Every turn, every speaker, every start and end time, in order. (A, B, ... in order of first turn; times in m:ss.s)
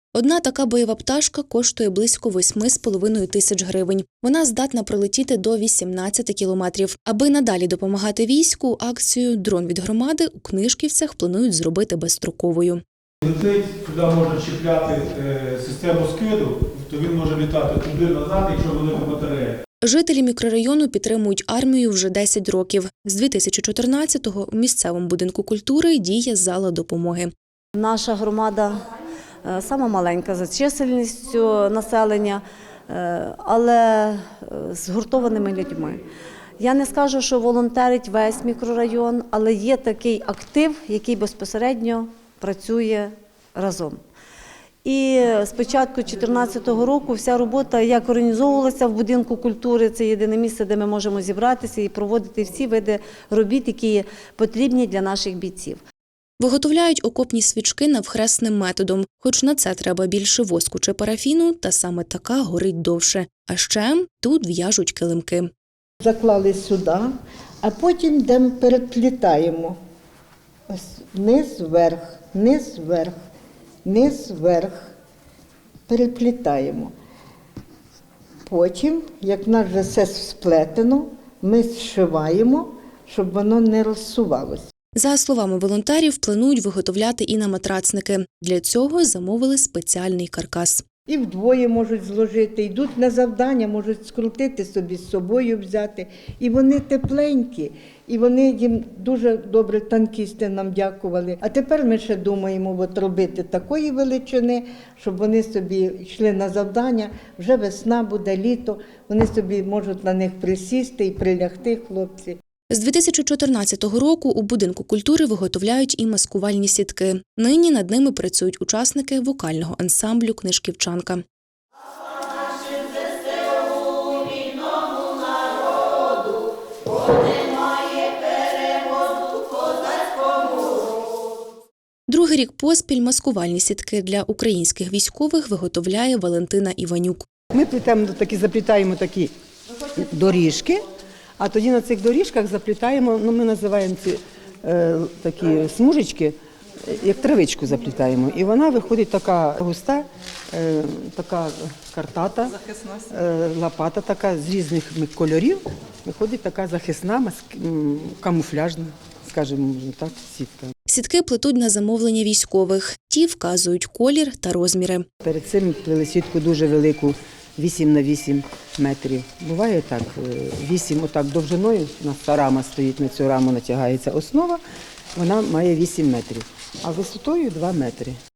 0:00.1-0:12.8 A
0:13.2-0:19.6 B
0:19.8-0:27.3 A
0:27.8-0:28.8 C
0:29.4-0:36.0 C
0:36.6-0:44.0 C
0:44.8-0:55.8 C
0:56.4-1:05.5 A
1:06.0-1:07.1 D
1:07.6-1:09.8 D
1:10.7-1:13.1 D
1:13.8-1:14.9 D
1:15.9-1:16.9 D
1:18.5-1:24.7 D
1:25.0-1:30.8 A
1:31.1-1:52.4 D
1:52.7-2:01.2 A
2:12.1-2:17.2 A
2:17.5-2:19.3 E
2:20.0-2:20.8 E
2:21.4-2:32.6 E
2:33.1-2:40.7 E
2:40.9-2:45.0 A
2:45.2-2:54.6 E
2:55.2-2:58.2 E